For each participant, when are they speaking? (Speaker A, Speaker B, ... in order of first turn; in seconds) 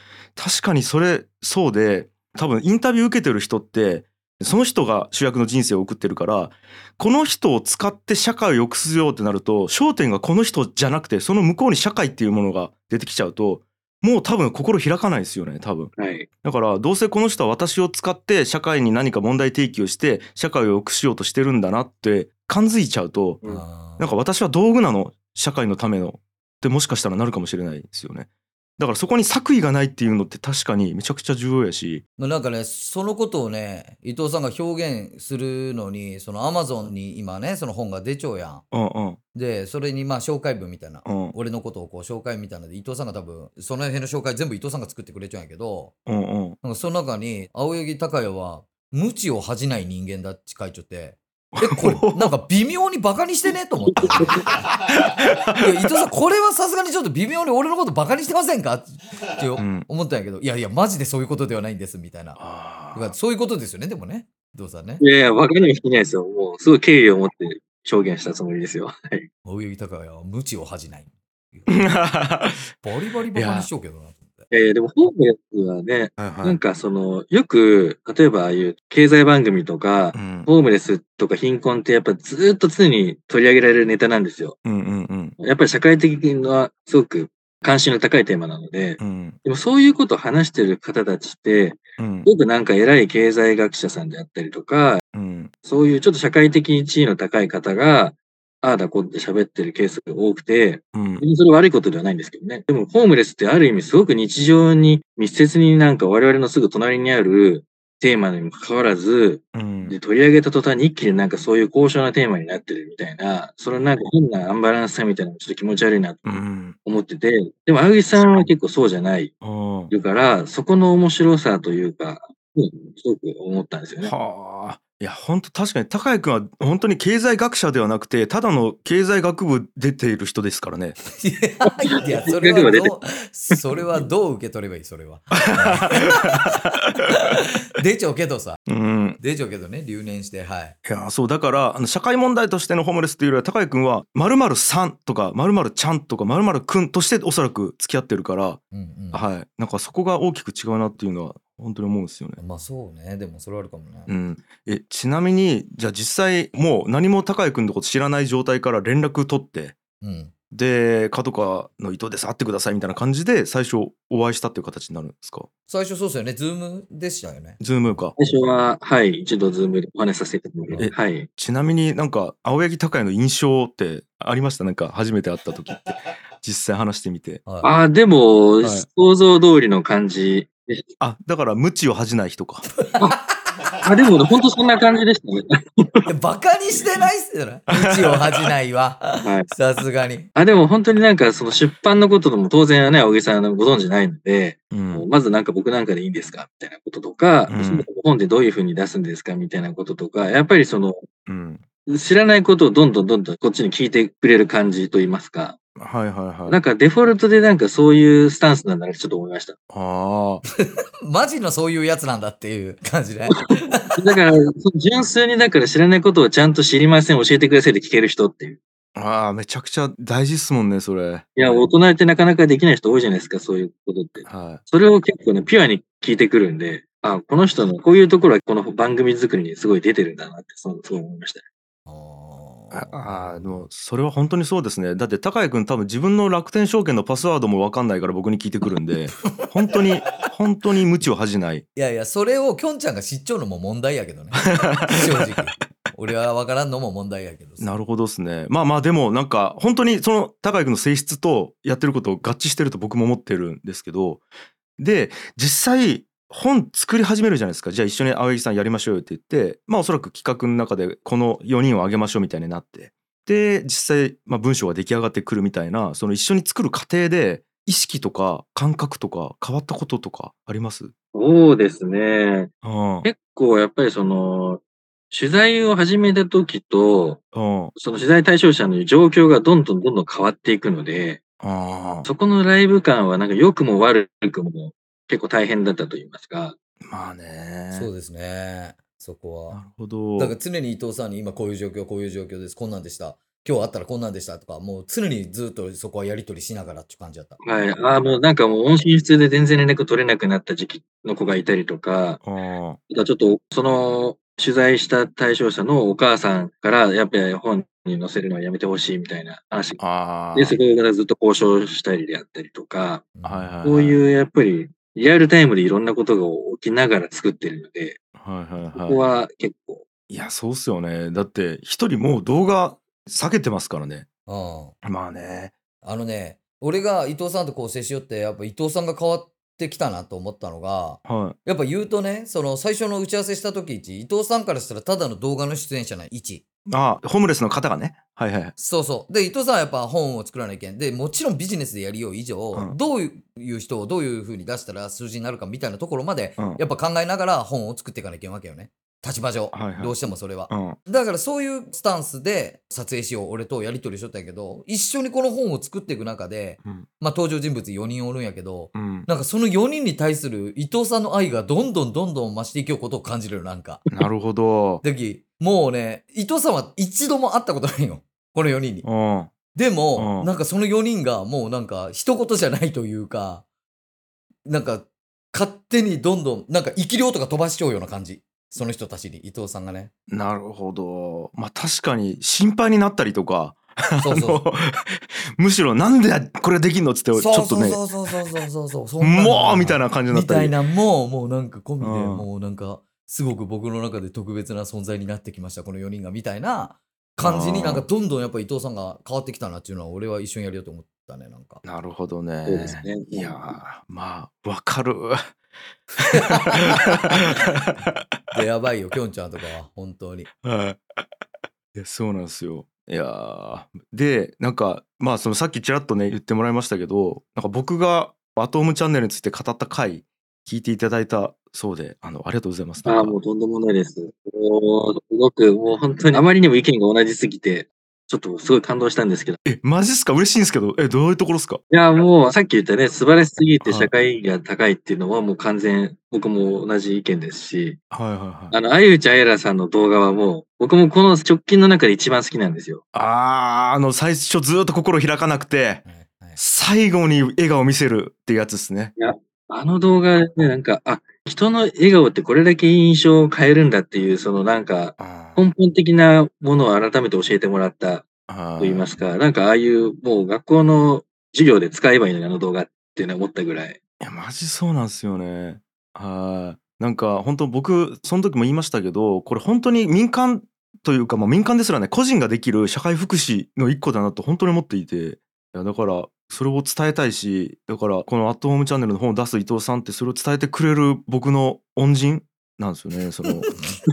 Speaker A: 0.3-15.9, 16.4-23.4, 24.0-32.0, 38.7-39.2, 41.0-41.3, 46.0-46.6, 51.5-52.3, 54.9-55.9, 59.6-59.9, 62.4-63.1, 71.7-72.7, 73.3-73.7, 76.2-76.6, 80.1-80.5, 84.6-85.3, 89.0-89.4, 92.0-92.3, 95.1-95.5, 100.9-101.2, 109.5-109.9, 116.2-116.8, 119.4-119.9, 124.0-130.9, 135.3-137.1, 138.7-139.2, 140.8-148.6, 149.1-152.4, 154.1-159.8, 160.5-165.5, 167.6-168.1, 170.8-177.4, 181.0-182.7, 187.7-188.5, 194.7-195.1, 197.5-197.8, 201.2-201.6, 205.8-206.6, 209.7-210.4, 218.9-221.2, 224.2-224.6, 232.7-241.6, 244.4-245.3, 247.6-254.2, 254.8-270.9, 272.6-273.1, 277.3-277.7, 281.4-282.1, 286.8-287.9, 289.5-290.3, 302.2-302.8, 309.8-310.6, 313.2-314.0, 318.2-319.0, 320.1-324.1, 324.8-325.5, 331.0-331.4, 336.7-338.5, 349.5-350.0, 350.5-350.8, 358.7-359.1, 363.9-364.8, 368.8-369.3, 369.9-370.3, 380.1-388.4, 389.0-390.5, 391.8-392.3, 397.2-397.9, 401.6-405.3, 406.0-408.0, 410.4-411.1, 411.7-423.2, 429.4-431.6, 433.6-433.9, 437.9-438.6, 442.9-445.8, 446.4-448.9, 455.0-455.4, 458.3-458.9, 464.0-483.5
Speaker B: 16.0-16.3, 53.9-54.4, 65.0-69.3, 74.5-84.6, 85.4-95.0, 95.6-116.3, 116.8-119.3, 119.9-124.1, 131.9-132.9, 168.2-171.3, 177.6-180.9, 183.8-186.1, 189.2-189.5, 190.3-201.0, 201.9-205.6, 206.4-209.5, 213.9-218.6, 221.3-231.4, 271.1-272.5, 273.0-277.2, 277.8-281.2, 282.0-286.6, 297.4-302.2, 302.9-309.8, 310.3-313.1, 313.6-318.0, 318.7-319.8, 402.5-403.4, 422.9-429.4, 431.7-437.8, 438.5-442.8, 449.0-458.1, 458.6-463.8
Speaker C: 23.4-24.1, 32.2-38.6, 39.3-45.9, 46.6-54.6, 55.6-62.4, 62.9-65.0, 69.4-72.0, 72.8-74.5, 131.1-138.6, 139.2-140.8, 148.7-149.2, 152.4-154.1, 160.0-160.3, 165.7-168.3, 177.4-177.7, 182.8-183.2, 186.1-190.3, 210.6-214.0, 231.9-233.7, 239.1-239.5, 241.8-247.7, 287.7-289.6, 290.2-297.4, 313.1-313.5, 324.3-324.7, 325.8-336.4, 338.6-363.9, 364.8-368.9, 369.5-373.4, 374.4-379.9, 384.0-384.4, 387.1-401.6, 406.0-407.2, 408.3-410.3, 445.8-446.4, 483.5-483.8